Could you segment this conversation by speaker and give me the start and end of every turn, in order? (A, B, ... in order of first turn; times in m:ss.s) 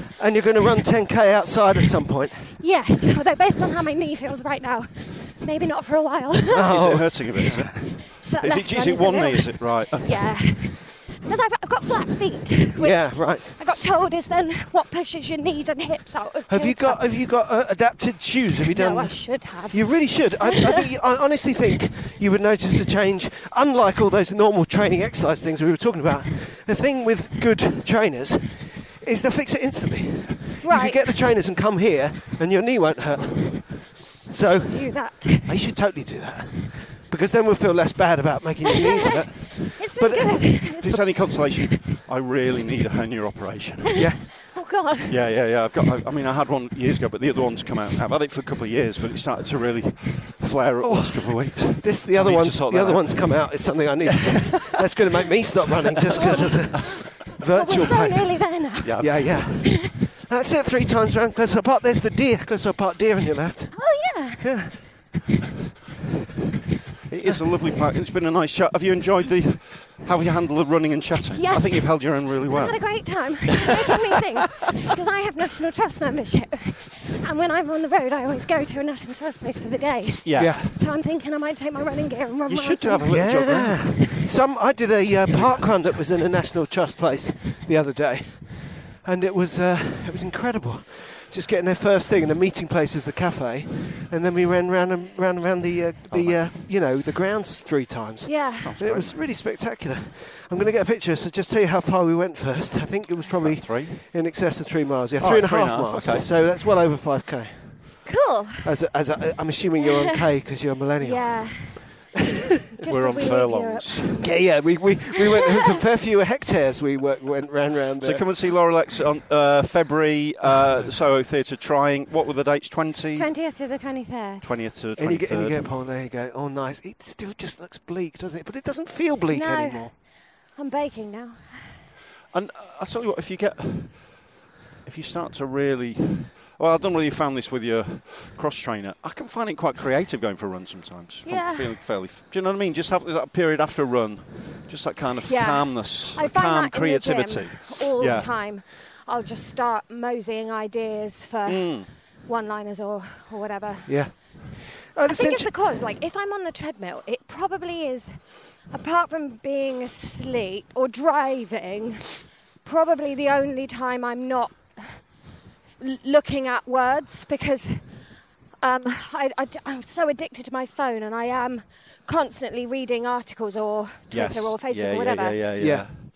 0:00.2-0:02.6 A
0:02.6-0:06.7 B
0:06.5-0:07.8 A
0:06.6-0:10.4 C
0:08.2-0:17.1 B
0:12.8-0:13.6 A
0:16.5-0:41.5 A
0:18.7-0:20.9 B
0:30.6-0:31.1 B
0:34.4-0:35.6 B
0:39.4-0:40.9 B
0:40.8-0:44.0 C
0:44.0-0:44.2 A
0:44.0-0:45.2 B
0:45.1-0:54.8 C
0:50.8-1:05.1 A
0:56.0-0:56.4 C
0:56.2-0:56.9 B
0:57.5-0:59.6 B
0:58.8-0:59.4 C
1:03.8-1:04.5 B
1:07.1-1:13.4 C
1:11.4-1:23.1 B
1:20.2-1:20.8 C
1:20.4-1:20.7 A
1:22.5-1:24.2 C
1:23.1-1:48.1 A
1:25.3-1:25.9 C
1:36.1-1:36.6 C
1:38.3-1:38.7 B
1:38.6-1:39.2 C
1:43.3-1:44.0 C
1:45.2-1:46.3 C
1:48.0-1:48.7 B
1:48.6-1:52.0 A
1:49.9-1:50.2 B
1:51.0-1:52.2 B
1:52.8-1:54.2 B
1:52.8-1:54.4 C
1:54.2-1:58.3 A
1:58.0-2:03.3 C
2:03.2-2:04.5 B
2:04.4-2:05.8 C
2:05.0-2:09.9 A
2:09.3-2:10.0 B
2:10.6-2:11.8 B
2:12.3-2:14.3 C
2:14.8-2:28.5 C
2:21.2-2:21.8 B
2:25.3-2:34.4 B
2:31.5-2:31.9 C
2:33.9-2:35.5 A
2:35.1-2:45.1 B
2:45.8-2:48.0 B
2:48.6-2:55.5 B
2:54.1-2:56.0 C
2:55.6-2:55.9 A